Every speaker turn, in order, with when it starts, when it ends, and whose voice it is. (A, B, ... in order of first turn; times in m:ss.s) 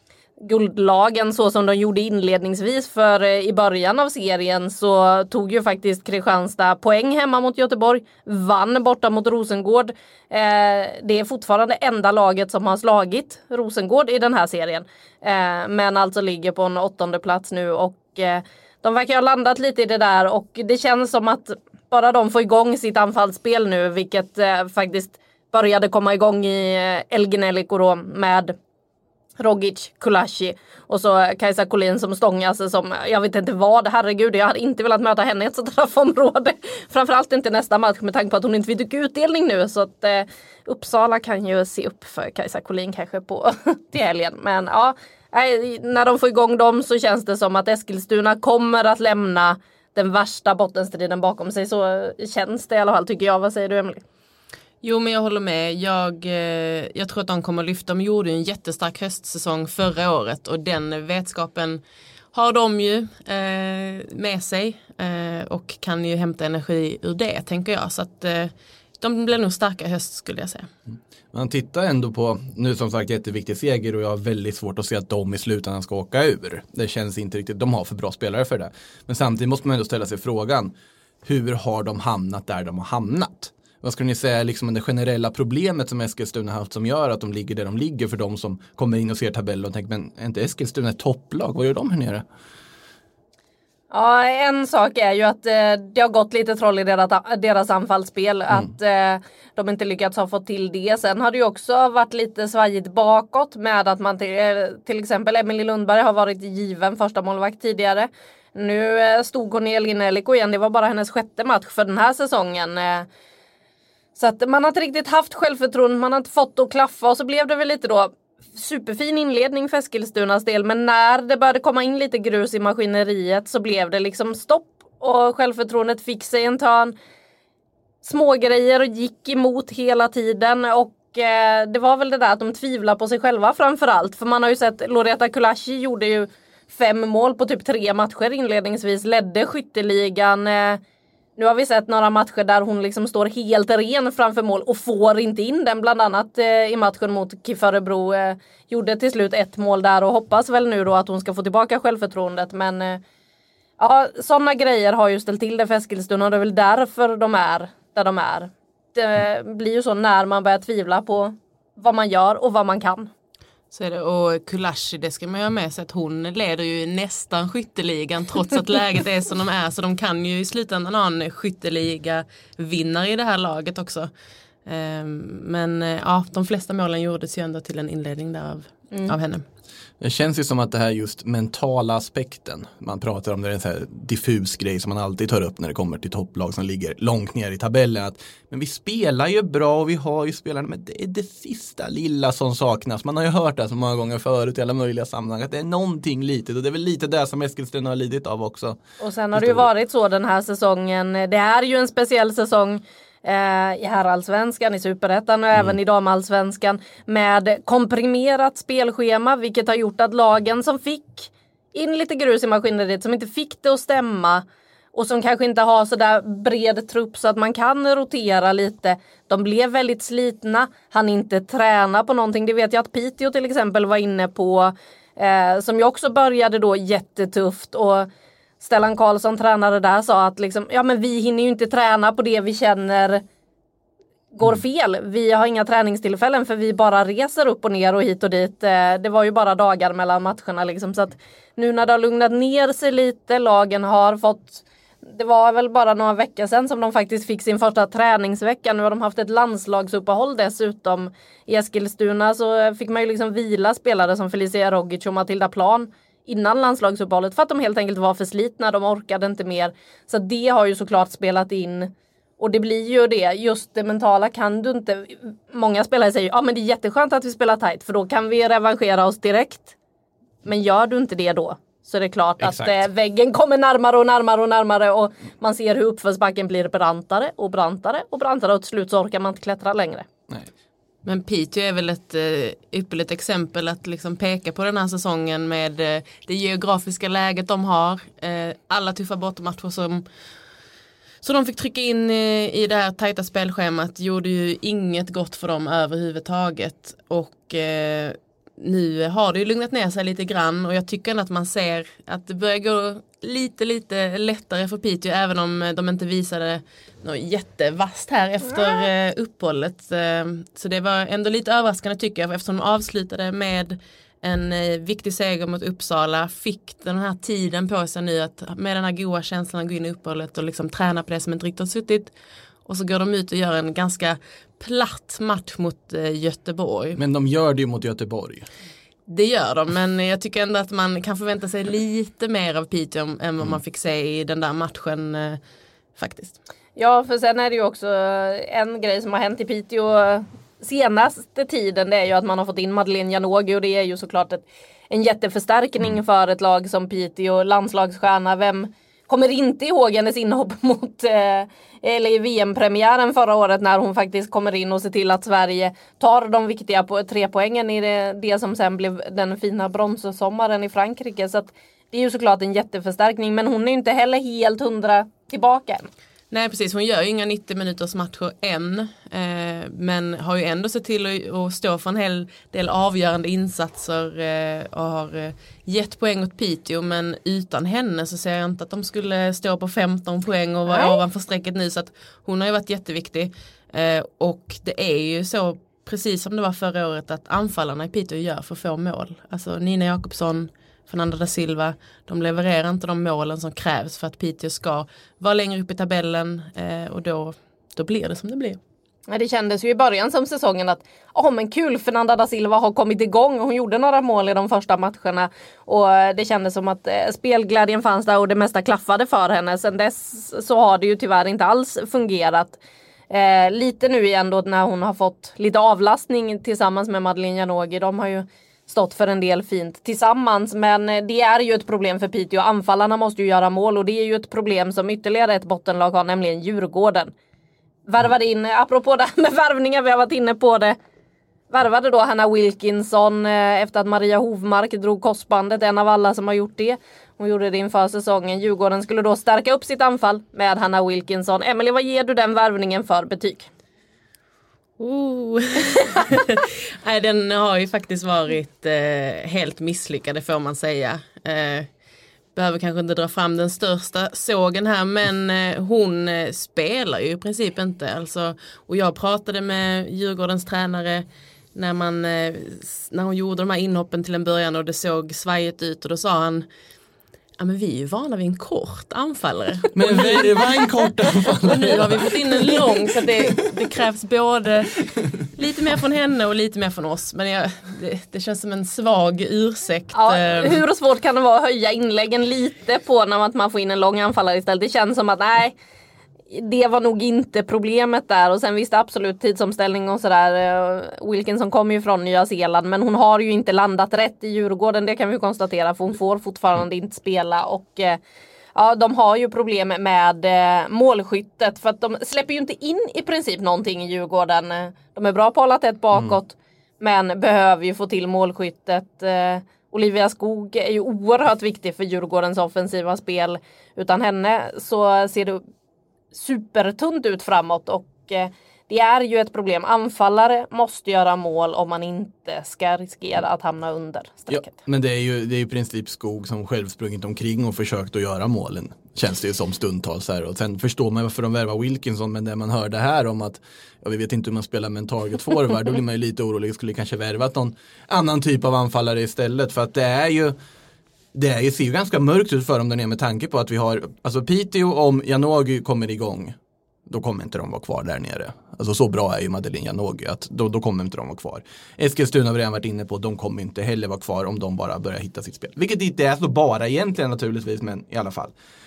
0:00.4-0:28.6 A
0:29.4-0:54.0 A
0:54.8-1:01.8 B
1:02.3-1:10.7 B
1:11.3-1:20.7 C
1:21.2-1:32.2 C
1:33.9-1:53.1 A
1:54.2-2:06.9 A
2:08.0-2:20.8 A
2:21.4-2:33.0 A
2:33.8-2:43.1 A
2:43.7-2:54.1 B
2:54.6-2:59.4 B
3:00.0-3:18.8 C
3:19.0-3:48.1 A
3:19.3-3:19.7 C
3:48.6-3:53.2 A
3:54.3-4:29.7 A
4:30.4-4:40.1 A
4:32.4-4:32.8 C
4:41.0-4:50.0 B
4:51.2-5:22.1 B
5:22.6-5:27.0 B
5:27.0-5:28.4 C
5:29.1-5:35.4 B
5:36.0-5:36.4 B
5:36.8-6:05.9 A
6:06.3-6:38.6 B
6:20.7-6:21.0 A
6:39.1-6:52.6 A
6:53.1-7:07.1 A
7:07.9-7:10.8 A
7:11.5-7:23.5 A
7:24.8-7:31.7 B
7:32.3-7:46.4 B
7:47.4-7:50.4 B
7:49.7-7:52.6 C
7:51.5-8:00.6 B
7:59.9-8:05.6 A
8:06.3-8:18.0 A
8:18.5-8:35.4 A
8:36.1-8:44.5 A
8:44.3-9:00.3 C
9:01.1-9:06.4 C
9:06.9-9:18.3 C